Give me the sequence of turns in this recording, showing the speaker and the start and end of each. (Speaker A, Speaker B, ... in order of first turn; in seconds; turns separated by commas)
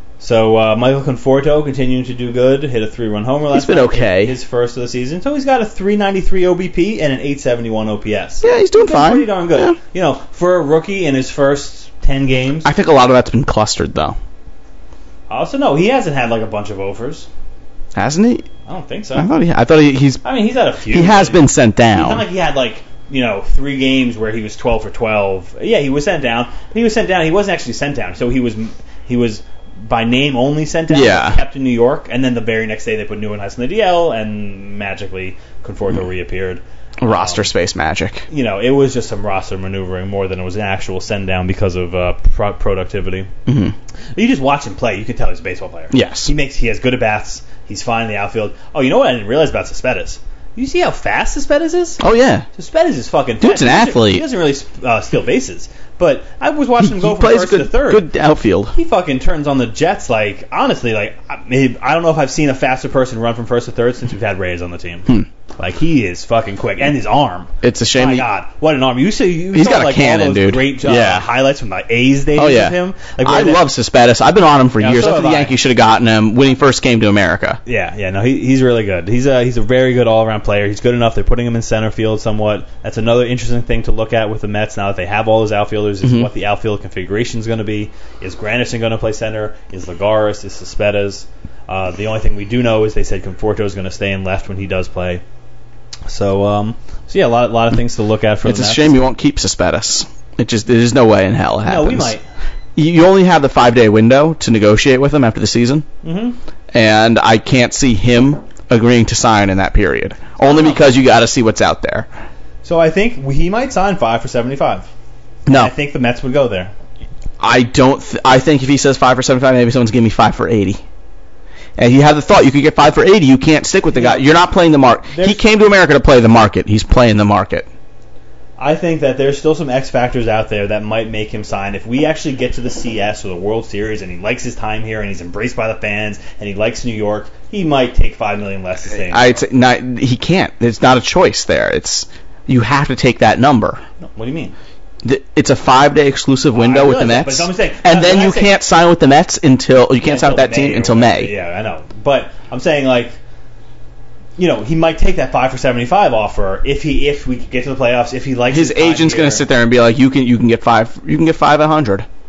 Speaker A: 0.2-12.7, Speaker B: 3.5-4.3, Speaker B: 8.4-9.7, Speaker B: 12.6-14.2, Speaker A: 15.3-17.3, Speaker B: 17.9-18.5, Speaker A: 18.6-19.3, Speaker B: 19.1-20.2, Speaker A: 20.2-37.5, Speaker B: 20.9-22.2, Speaker B: 30.9-31.4, Speaker B: 37.0-38.2, Speaker A: 38.3-43.3, Speaker B: 43.5-43.7, Speaker A: 44.1-52.0, Speaker B: 45.9-46.3, Speaker B: 52.0-52.5, Speaker A: 52.5-58.0, Speaker B: 53.4-54.2, Speaker B: 56.8-58.7, Speaker A: 58.7-73.6, Speaker B: 67.6-68.3, Speaker B: 69.5-71.3, Speaker B: 72.3-77.6, Speaker A: 74.8-75.5, Speaker A: 77.7-95.2, Speaker B: 86.0-86.3, Speaker A: 96.1-99.0, Speaker B: 98.4-102.1, Speaker A: 101.6-102.2, Speaker B: 102.8-105.8, Speaker A: 106.0-106.4, Speaker B: 106.7-112.1, Speaker A: 110.5-110.8, Speaker A: 112.6-114.9, Speaker B: 115.5-115.7, Speaker A: 115.5-116.7, Speaker B: 117.4-120.8, Speaker B: 121.8-127.7, Speaker A: 123.9-124.3, Speaker A: 125.1-125.4, Speaker A: 128.6-139.4, Speaker B: 139.0-143.8, Speaker A: 144.0-144.5, Speaker B: 145.0-151.3, Speaker A: 146.5-148.5, Speaker A: 150.0-153.2, Speaker A: 154.4-159.4, Speaker B: 158.5-162.1